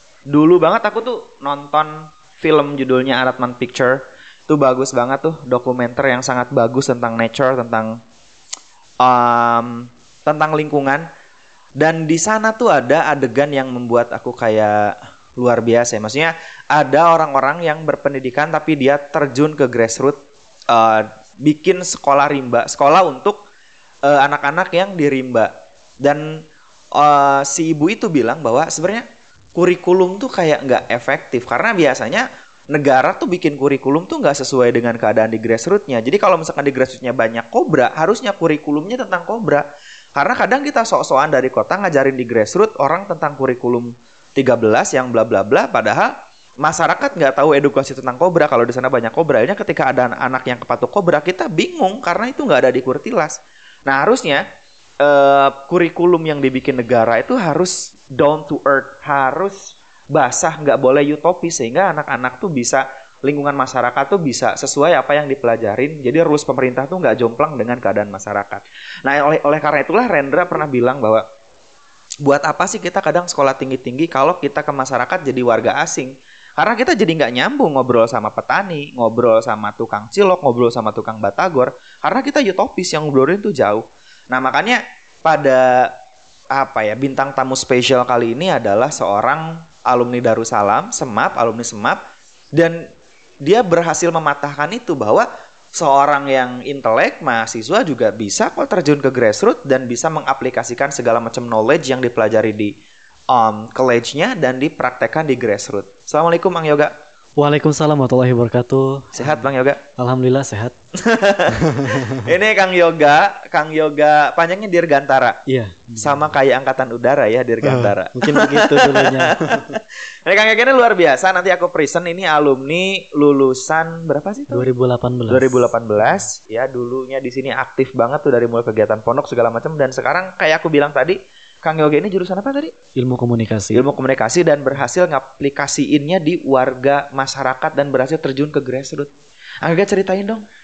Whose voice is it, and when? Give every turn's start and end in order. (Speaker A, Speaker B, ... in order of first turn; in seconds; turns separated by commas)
Speaker A: 0.3-8.0, Speaker A: 9.0-11.1, Speaker A: 11.8-20.2, Speaker A: 20.7-23.4, Speaker A: 24.0-25.5, Speaker A: 26.0-26.4, Speaker A: 26.9-39.6, Speaker A: 40.2-46.1, Speaker A: 46.6-54.4, Speaker A: 55.0-71.2, Speaker A: 72.2-85.9, Speaker A: 86.5-92.0, Speaker A: 92.5-92.8, Speaker A: 93.4-102.7, Speaker A: 103.3-106.9, Speaker B: 107.4-109.4, Speaker A: 109.1-109.8, Speaker B: 110.0-110.7, Speaker A: 111.0-115.4, Speaker B: 111.5-112.2, Speaker B: 115.5-116.2, Speaker A: 116.0-124.7, Speaker B: 117.6-119.7, Speaker B: 124.5-125.6, Speaker A: 125.3-132.7, Speaker B: 132.9-133.8, Speaker A: 133.7-139.1, Speaker A: 139.6-140.4